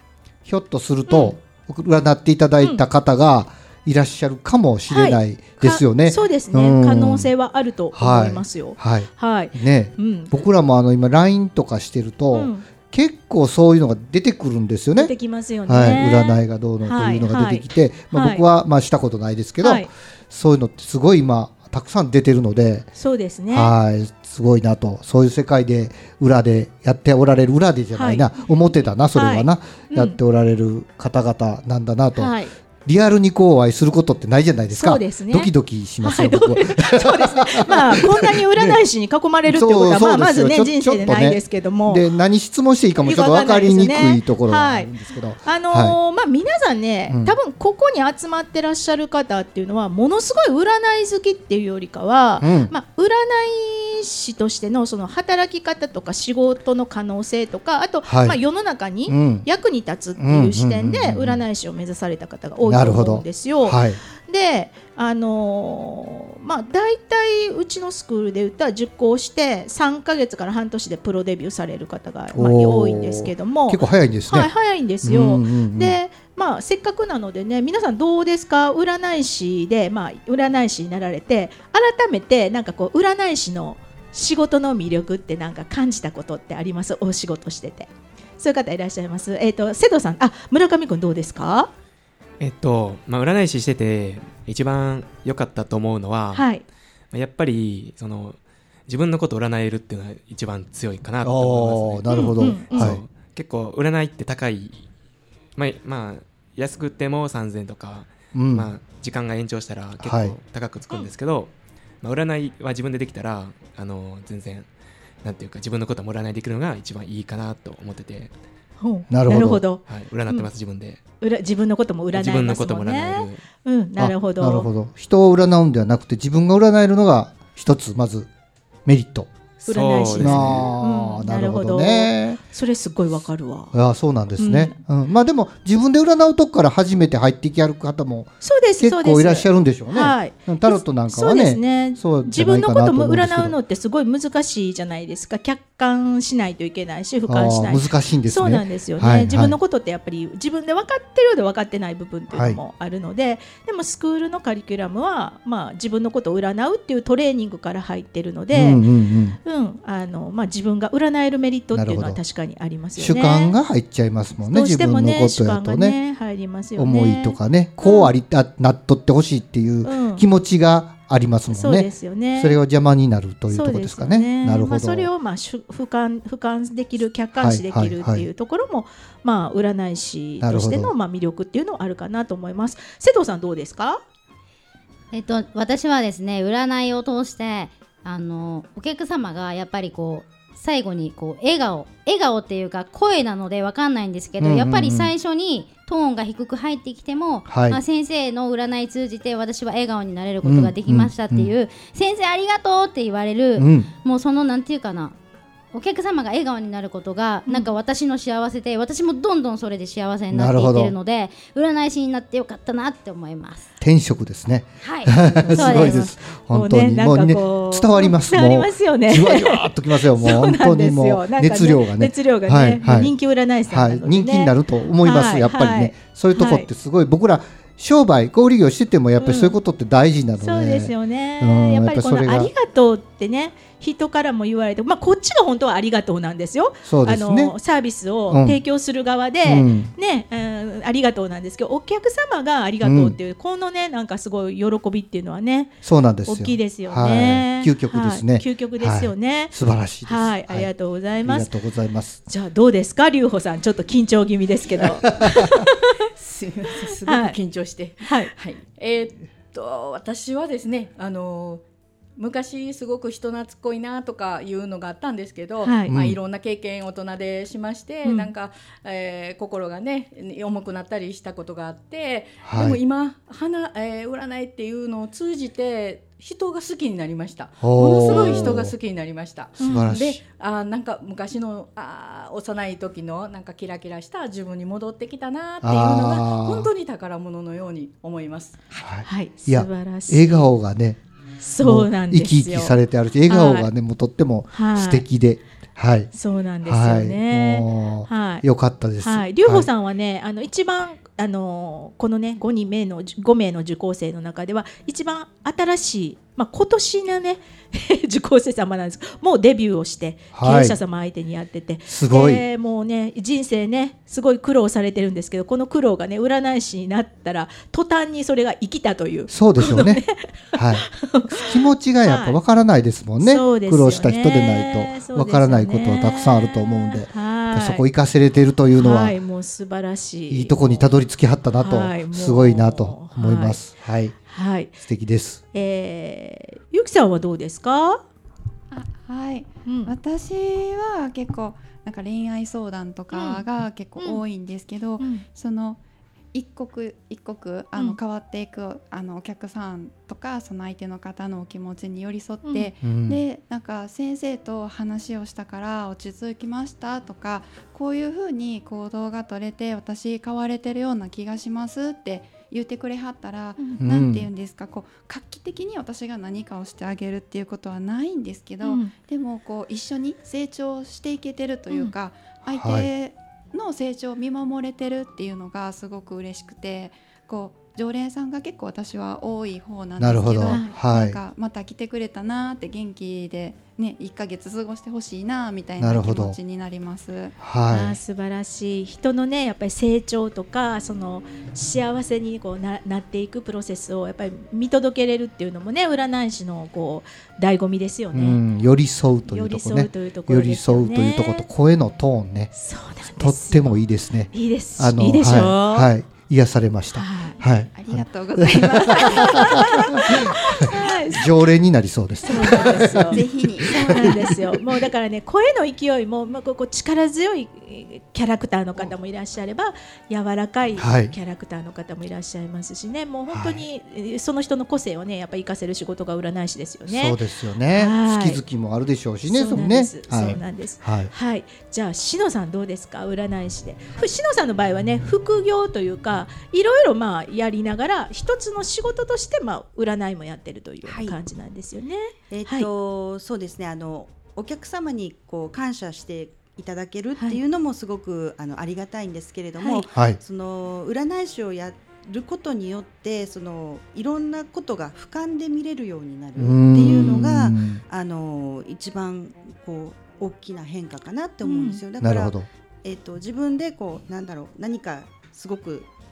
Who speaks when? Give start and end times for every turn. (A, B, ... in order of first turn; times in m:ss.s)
0:00.4-0:07.3 A
0:01.1-0:01.4 B
0:04.9-0:10.3 B
0:07.9-0:15.1 A
0:12.3-0:12.6 B
0:15.0-0:18.4 B
0:15.7-0:22.9 A
0:19.6-0:19.9 B
0:23.0-0:23.7 B
0:23.5-0:32.3 A
0:27.9-0:28.3 B
0:29.1-0:30.2 B
0:32.2-0:32.5 B
0:32.8-0:38.8 A
0:34.7-0:42.0 B
0:39.4-0:46.0 A
0:43.0-0:44.9 B
0:45.4-1:31.7 B
0:47.1-0:47.4 A
0:52.4-0:52.7 A
0:58.0-0:58.4 A
0:59.1-0:59.4 A
1:00.2-1:01.4 A
1:02.6-1:04.0 A
1:12.3-1:14.5 A
1:15.0-1:16.0 A
1:32.4-1:36.5 C
1:36.3-1:36.6 B
1:37.1-1:44.8 C
1:41.2-1:43.0 A
1:42.1-1:42.9 B
1:45.6-1:54.7 C
1:48.3-1:48.7 A
1:50.0-1:50.3 A
1:55.2-1:58.3 C
1:58.8-2:00.5 B
1:59.1-1:59.6 A
1:59.8-2:01.0 C
2:01.2-2:04.7 B
2:02.1-2:03.4 C
2:04.0-2:08.3 A
2:08.8-2:09.3 A
2:09.6-2:13.7 B
2:09.6-2:10.7 C
2:10.1-2:12.4 A
2:13.7-2:23.6 A
2:14.4-2:14.8 B
2:18.4-2:38.8 B
2:27.3-2:29.6 A
2:32.3-2:32.6 A
2:38.5-2:39.4 A
2:39.4-2:43.5 B
2:41.7-2:42.2 A
2:43.0-2:46.0 A
2:44.5-2:48.1 B
2:46.8-2:55.1 A
2:49.8-2:50.2 B
2:51.5-2:52.6 B
2:53.5-3:04.0 B
2:57.4-2:58.3 A
3:00.4-3:00.9 A
3:05.1-3:25.1 D
3:14.4-3:15.1 A
3:17.4-3:17.8 A
3:20.4-3:21.5 A
3:23.6-3:23.9 A
3:25.7-3:33.7 D
3:27.4-3:27.7 B
3:30.3-3:30.9 A
3:33.8-3:43.1 A
3:34.8-3:36.0 D
3:35.2-3:46.7 B
3:43.7-3:52.5 A
3:49.2-3:49.6 B
3:50.4-4:11.5 B
3:56.8-3:57.6 A
3:58.3-3:58.6 A
3:59.4-3:59.9 A
4:02.8-4:03.2 A
4:05.8-4:12.2 A
4:12.3-4:15.9 B
4:14.8-4:15.6 A
4:16.2-4:21.6 E
4:17.0-4:17.4 B
4:18.0-4:18.3 B
4:22.2-4:48.7 E
4:25.6-4:25.9 B
4:25.9-4:26.2 A
4:28.0-4:28.3 B
4:32.4-4:32.8 A
4:37.6-4:38.7 A
4:38.1-4:38.5 B
4:39.6-4:40.0 B
4:39.6-4:40.2 A
4:45.6-4:46.7 A
4:48.8-4:51.0 A
4:49.0-4:50.5 B
4:51.4-4:52.8 B
4:51.6-4:56.1 A
4:53.3-4:53.7 B
4:54.5-4:55.0 B
4:56.1-4:58.4 B
4:56.6-4:59.7 A
4:59.0-5:22.4 B
5:10.3-5:10.8 A
5:11.9-5:12.4 A
5:19.3-5:20.0 A
5:20.5-5:29.2 A
5:23.2-5:27.8 B
5:28.7-5:31.0 B
5:30.3-5:34.2 A
5:31.6-5:33.6 B
5:34.3-5:34.7 B
5:34.7-5:35.4 A
5:35.5-5:38.0 B
5:38.7-5:45.8 F
5:39.6-5:39.9 B
5:43.1-5:43.4 B
5:46.3-6:27.4 F
5:52.4-5:52.7 B
5:52.8-5:53.2 A
6:03.8-6:04.3 A
6:08.6-6:08.9 B
6:12.5-6:12.9 A
6:20.0-6:21.2 A
6:20.4-6:20.7 B
6:25.8-6:26.4 A
6:27.4-6:28.0 A
6:27.7-6:38.4 B
6:38.1-6:42.5 A
6:39.3-6:41.4 B
6:42.5-6:43.8 B
6:43.0-6:50.2 A
6:44.3-6:45.9 B
6:46.9-6:47.4 B
6:47.7-6:51.0 F
6:48.9-6:51.3 B
6:51.1-6:54.4 A
6:52.2-7:07.2 B
6:52.3-6:54.4 F
7:00.8-7:01.1 A
7:03.3-7:03.6 A
7:06.9-7:11.1 A
7:07.7-7:08.4 B
7:09.2-7:22.7 B
7:20.8-7:21.2 G
7:22.3-7:45.9 G
7:29.6-7:29.8 B
7:36.4-7:37.8 A
7:41.4-7:41.8 B
7:42.0-7:42.5 A